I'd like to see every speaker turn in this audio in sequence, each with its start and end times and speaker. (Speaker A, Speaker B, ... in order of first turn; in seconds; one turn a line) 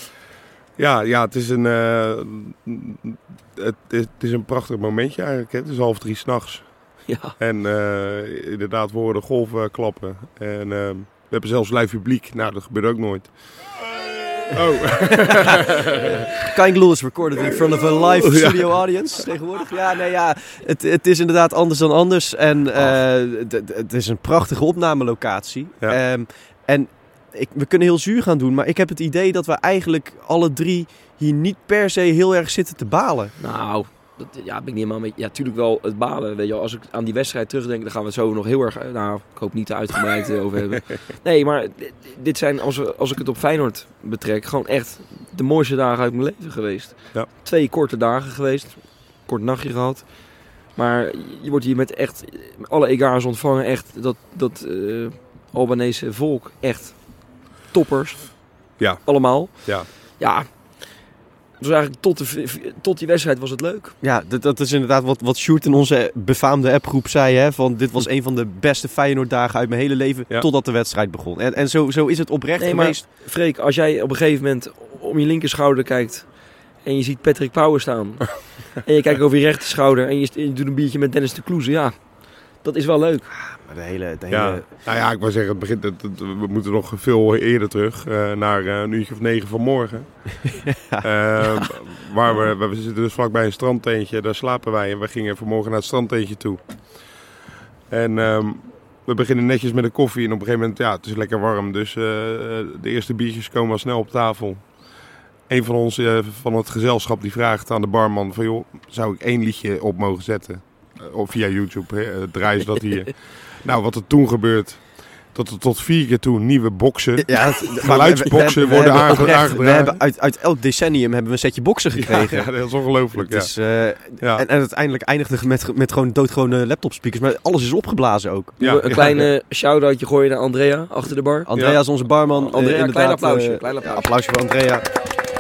Speaker A: 0.8-13.7
Speaker B: 7.1-7.3
Speaker A: 14.5-16.5
Speaker C: 15.1-33.3
Speaker A: 17.5-18.7
Speaker B: 33.4-63.9
Speaker A: 58.8-59.9
Speaker C: 64.0-73.0
Speaker B: 72.6-83.3
Speaker C: 83.3-84.7
Speaker A: 84.3-97.2
Speaker C: 90.7-91.7
Speaker A: 97.9-120.0
Speaker C: 117.2-128.6
Speaker A: 122.0-124.4
Speaker A: 128.6-129.2
Speaker B: 128.6-131.5
Speaker C: 131.5-134.9
Speaker A: 131.5-131.8
Speaker B: 132.3-134.1